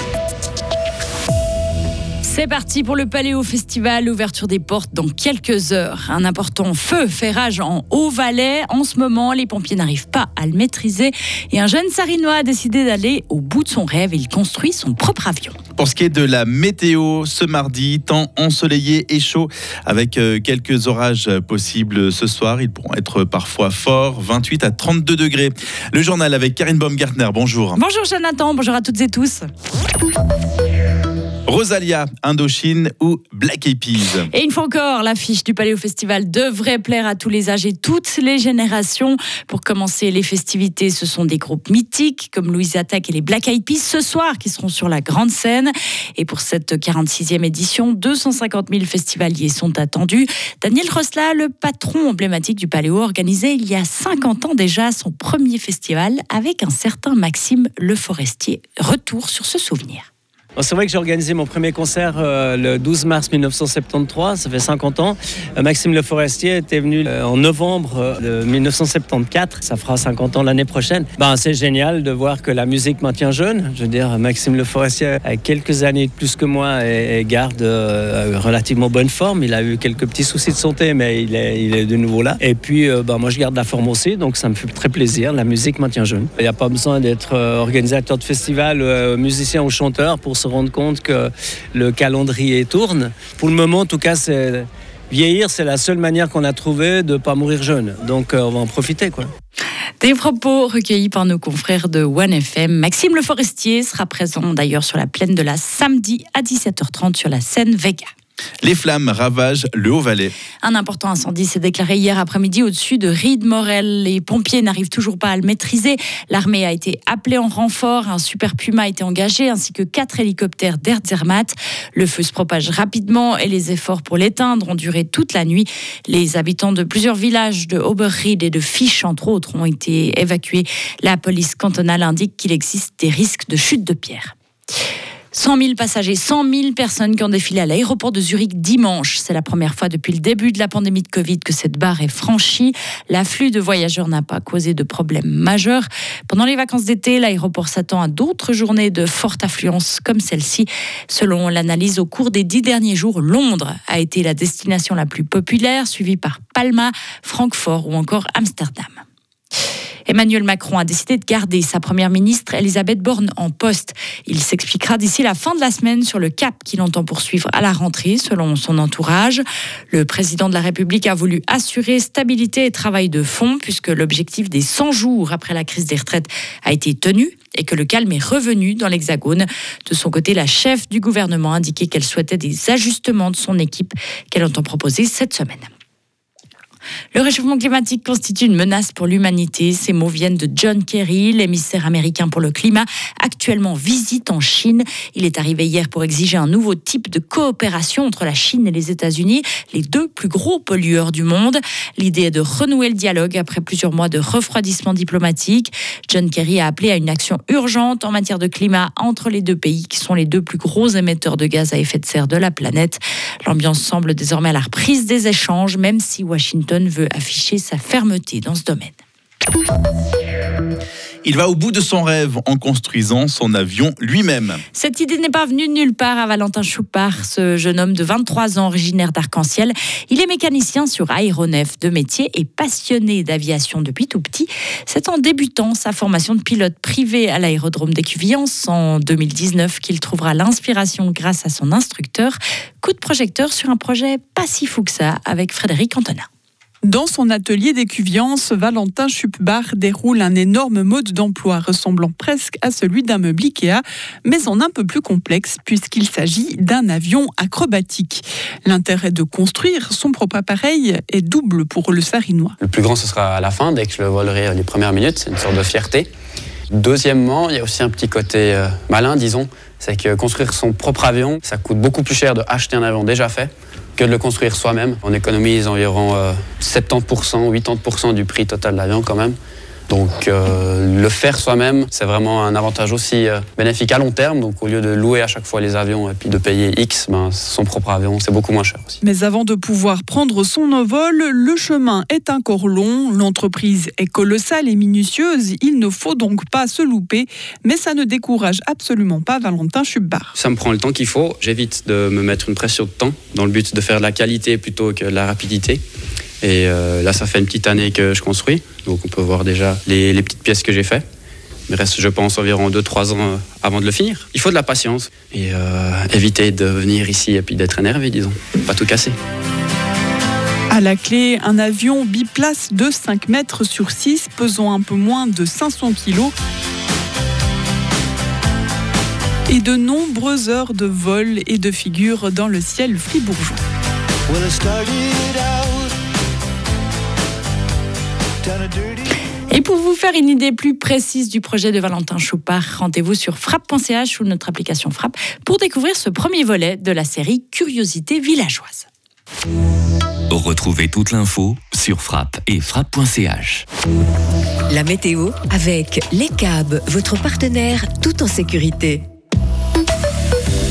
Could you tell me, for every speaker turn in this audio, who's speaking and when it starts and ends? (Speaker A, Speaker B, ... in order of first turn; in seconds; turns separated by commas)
Speaker A: 2.2-15.6, Speaker B: 15.8-27.8, Speaker A: 27.8-29.5, Speaker B: 31.5-34.3, Speaker A: 34.3-60.1, Speaker C: 60.6-99.3, Speaker A: 100.0-108.1, Speaker B: 108.6-110.3, Speaker A: 110.6-134.3, Speaker A: 135.3-159.0, Speaker A: 160.1-185.7, Speaker A: 187.1-219.0, Speaker B: 221.2-224.6, Speaker A: 224.7-246.3, Speaker D: 246.8-262.6, Speaker E: 262.6-266.1, Speaker E: 266.7-279.4, Speaker E: 279.9-289.0, Speaker D: 289.0-300.3, Speaker E: 300.4-305.8, Speaker E: 306.4-311.0, Speaker E: 311.7-319.1, Speaker D: 320.7-326.3, Speaker D: 329.5-333.6, Speaker A: 339.5-348.9, Speaker F: 350.3-353.6, Speaker G: 354.7-359.1